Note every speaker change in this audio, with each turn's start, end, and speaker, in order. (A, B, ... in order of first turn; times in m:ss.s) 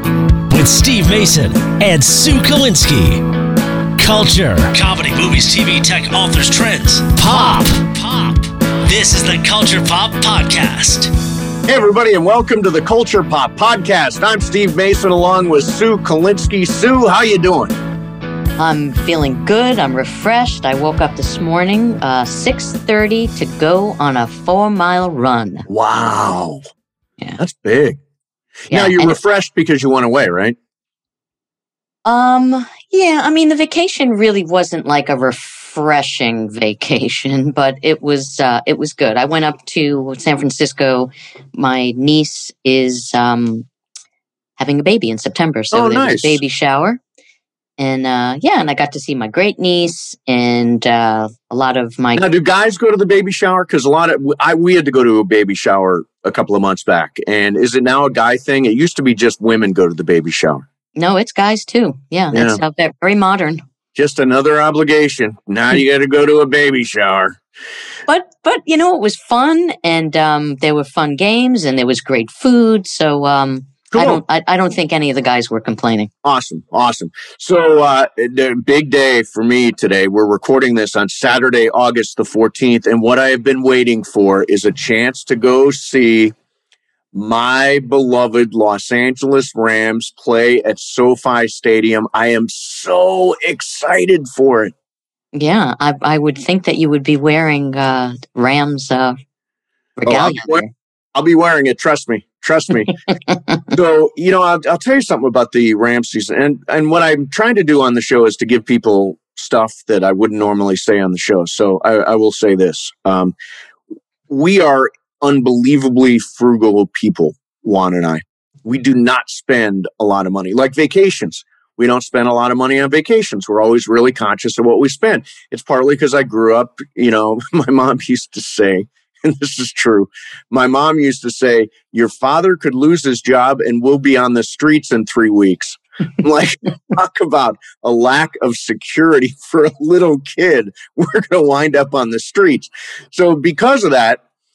0:00.5-0:03.3 A
0:04.0-0:11.1 A
0:11.7-0:17.7 B
0:18.6-0:25.7 C
0:25.7-0:26.6 B
0:27.4-0:28.0 B
0:28.7-0:29.2 C
0:28.7-0:30.6 B
0:32.0-0:43.7 C
0:44.6-0:47.0 C
0:45.7-0:46.4 B
0:47.8-0:52.2 C
0:52.2-1:00.6 B
1:01.0-1:03.6 C
1:02.3-1:02.6 B
1:04.0-1:07.4 B
1:08.1-1:16.1 C
1:13.9-1:14.2 B
1:16.2-1:26.3 B
1:27.1-1:34.7 B
1:35.3-1:39.2 C
1:40.0-1:40.7 C
1:40.0-1:42.9 B
1:43.3-1:43.6 C
1:43.7-1:53.3 B
1:54.3-2:24.2 B